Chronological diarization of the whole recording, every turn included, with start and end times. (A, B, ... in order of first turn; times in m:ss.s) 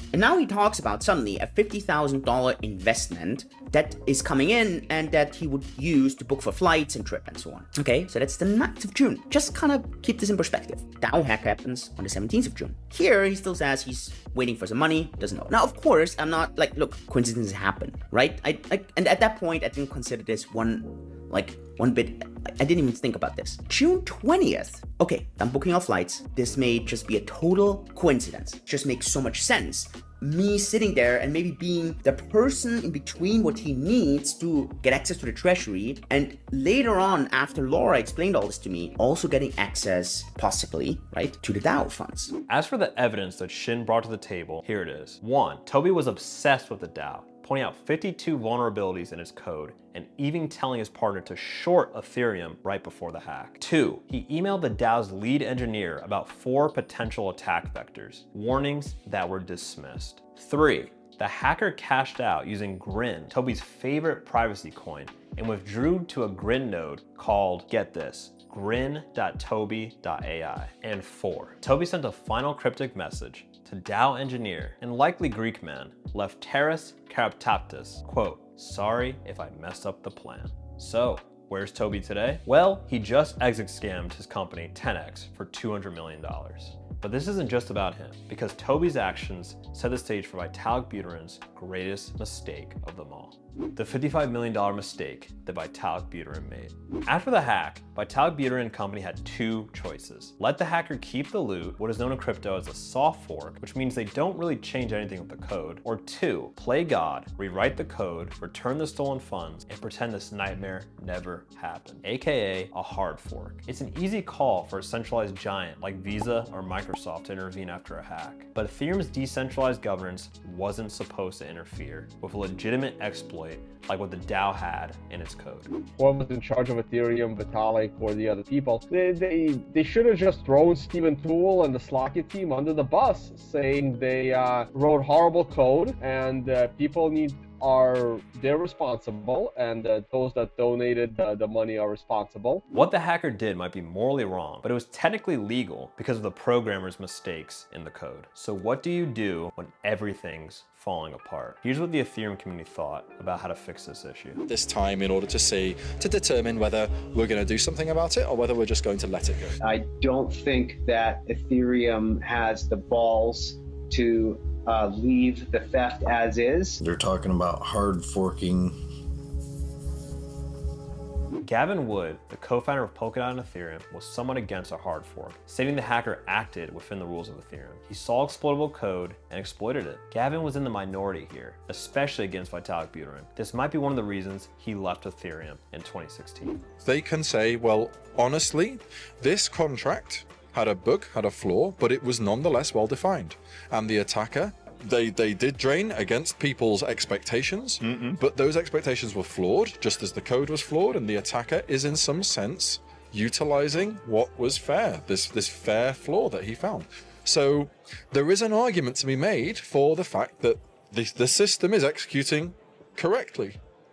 0:00.1-0:42.3 A
0:42.5-2:05.7 B
2:05.9-2:22.6 C
2:22.7-2:34.4 B
2:34.5-2:39.6 D
2:39.6-2:46.8 E
2:46.8-2:48.8 F
2:51.4-3:06.6 B
3:06.8-3:33.6 D